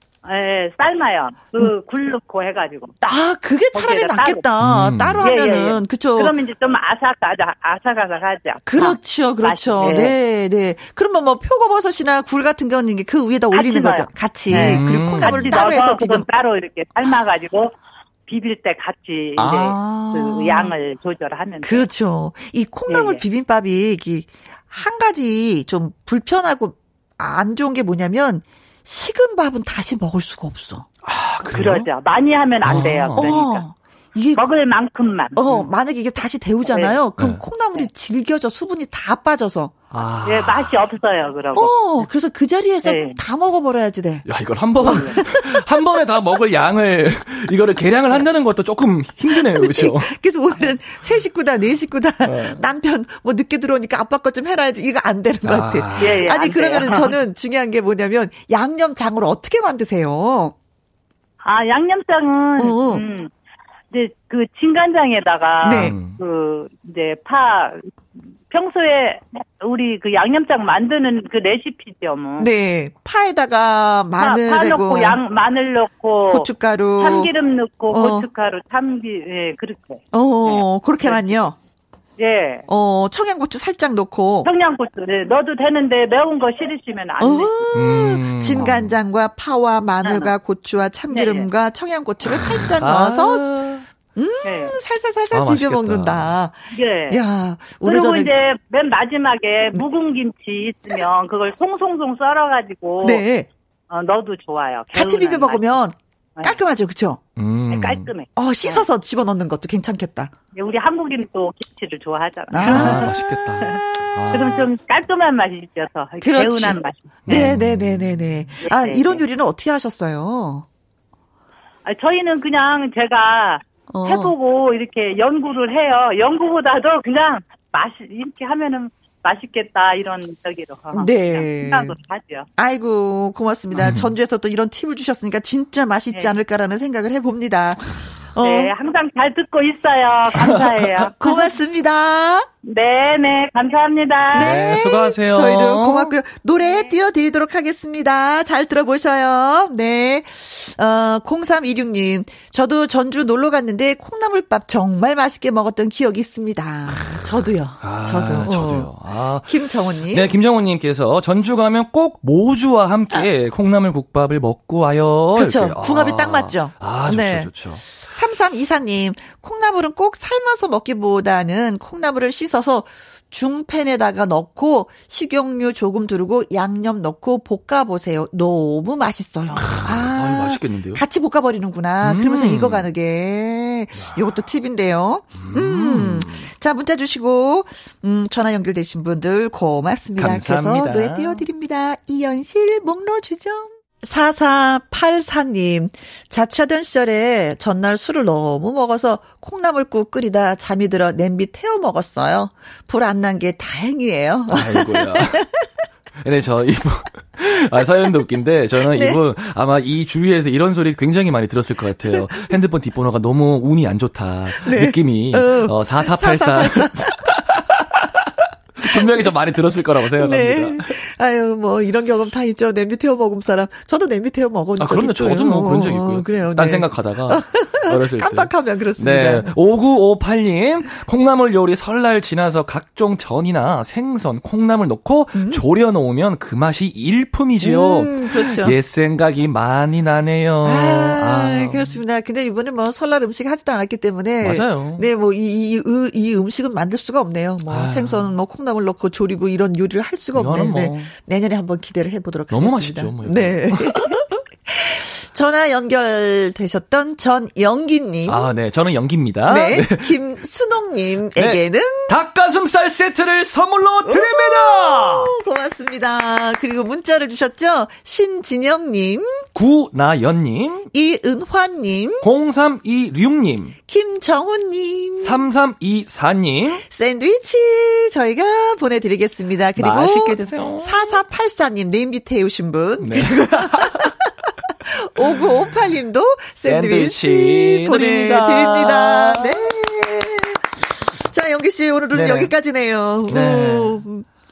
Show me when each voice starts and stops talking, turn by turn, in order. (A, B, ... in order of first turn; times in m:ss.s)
0:00.2-0:02.9 A
0:03.0-0:06.3 B
0:03.7-0:04.4 A
0:04.6-0:05.2 C
0:05.2-0:10.1 A
0:08.6-0:16.3 B
0:13.5-0:17.7 A
0:14.5-0:15.7 C
0:18.3-0:21.8 A
0:19.4-0:20.7 B
0:21.6-0:30.9 B
0:22.9-0:23.2 A
0:31.0-0:31.9 C
0:31.4-0:33.6 A
0:32.6-0:33.4 C
0:33.2-0:34.5 B
0:34.4-0:35.4 A
0:35.4-0:39.8 B
0:36.6-0:37.0 A
0:37.2-0:37.4 C
0:39.9-0:40.8 C
0:40.2-0:41.9 A
0:41.6-0:44.2 B
0:42.8-0:43.2 A
0:44.2-0:50.2 C
0:44.8-0:45.2 A
0:44.8-0:45.8 B
0:49.3-1:00.5 B
0:52.2-0:52.6 C
0:55.4-0:56.2 C
0:56.0-0:57.2 A
1:01.4-1:03.3 A
1:02.6-1:03.0 B
1:03.9-1:07.9 A
1:05.6-1:06.0 B
1:05.6-1:06.2 C
1:08.5-1:12.5 A
1:12.4-1:15.2 B
1:14.2-1:16.5 A
1:16.3-1:17.3 B
1:17.0-1:21.4 A
1:17.9-1:18.2 B
1:20.1-1:21.6 B
1:22.2-1:22.6 A
1:22.7-1:24.5 B
1:24.4-1:27.7 A
1:27.2-1:33.4 B
1:27.7-1:29.0 C
1:30.0-1:30.3 A
1:31.1-1:31.5 A
1:32.8-1:33.8 C
1:34.1-1:38.3 B
1:34.4-1:34.7 A
1:35.3-1:36.3 C
1:36.7-1:37.2 A
1:37.8-1:43.2 A
1:43.0-1:43.5 B
1:43.9-1:45.8 A
1:44.9-1:47.2 B
1:47.4-1:48.1 C
1:47.7-1:48.8 A
1:48.4-1:50.3 B
1:50.5-1:53.7 A
1:52.5-1:53.1 B
1:52.6-1:54.7 C
1:54.3-1:57.5 A
1:56.2-2:00.6 B
1:57.3-1:58.4 C
1:58.6-1:59.2 A
2:01.8-2:12.5 A
2:03.9-2:04.3 B
2:10.9-2:11.9 B
2:12.6-2:18.7 B
2:13.8-2:14.1 C
2:18.4-2:21.5 A
2:20.4-2:21.1 C
2:21.2-2:22.5 B
2:22.6-2:24.8 A
2:24.3-2:26.1 C
2:24.3-2:38.9 B
2:26.6-2:26.9 A
2:36.9-2:37.2 C
2:37.8-2:48.0 C
2:39.4-2:40.3 B
2:45.3-3:25.6 B
2:59.5-3:01.0 C
3:02.0-3:02.9 C
3:03.9-3:04.2 C
3:05.3-3:06.5 C
3:10.2-3:11.4 C
3:24.5-3:25.4 C
3:26.2-3:40.9 C
3:28.8-3:29.2 B
3:32.1-3:32.5 B
3:34.5-3:37.1 B
3:38.9-3:39.3 B
3:40.2-3:49.5 B
3:44.8-4:02.0 C
3:55.3-3:55.6 B
3:57.6-3:58.8 B
4:00.6-4:18.5 B
4:04.4-4:05.0 C
4:07.7-4:08.3 C
4:10.3-4:11.1 C
4:12.5-4:14.2 C
4:18.2-4:20.2 C
4:19.4-4:22.1 B
4:21.4-4:25.3 C
4:24.0-4:29.5 B
4:29.5-4:30.9 C
4:30.9-4:32.2 B
4:32.2-4:33.8 C
4:33.8-4:35.5 B
4:35.2-4:36.8 C
4:36.8-4:44.1 B
4:39.8-4:41.2 C
4:43.0-4:44.1 C
4:44.9-4:54.2 B
4:46.6-4:49.6 C
4:52.1-4:52.5 C
4:53.3-4:54.0 C